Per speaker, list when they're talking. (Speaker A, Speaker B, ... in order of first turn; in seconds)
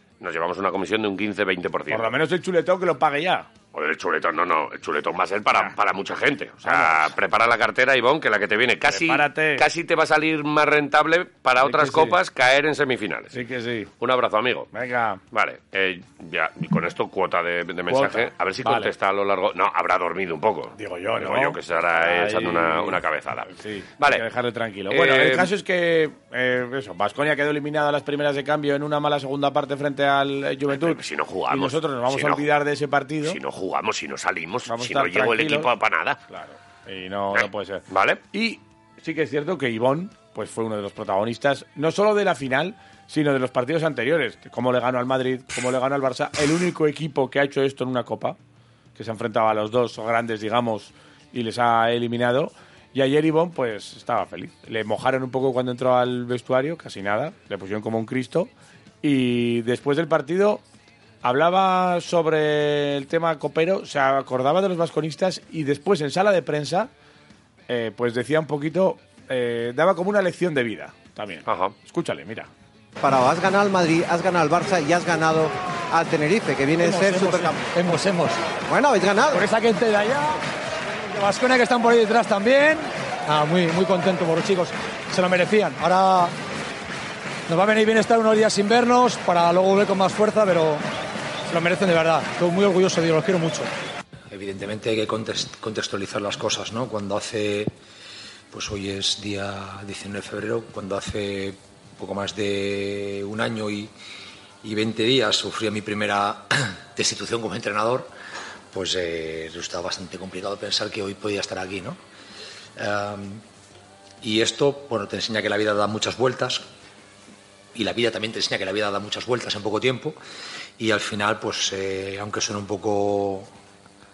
Speaker A: 0.2-2.1, 3.7-13.3, 14.0-14.7, 15.3-24.2, 24.9-25.5, 30.7-32.5, 33.2-36.2, 37.3-38.2, 71.5-71.7
Speaker B: 1.9-3.5, 6.6-7.1, 8.9-9.6, 11.6-12.2, 13.3-13.9, 14.7-15.2, 17.9-18.9, 20.8-23.0, 23.5-31.0, 31.5-33.4, 34.7-35.7, 36.3-48.4, 49.0-58.5, 59.0-60.6, 61.2-66.9, 67.7-72.5, 76.9-77.5
Speaker C: 73.0-77.6, 78.7-79.5
Speaker D: 76.8-78.4, 79.3-80.4, 81.0-86.3, 87.5-90.8, 91.5-93.7
Speaker E: 94.3-97.7, 98.5-103.9, 104.6-108.1, 108.7-112.0, 112.8-113.4, 114.2-116.7, 117.7-120.2, 120.8-123.5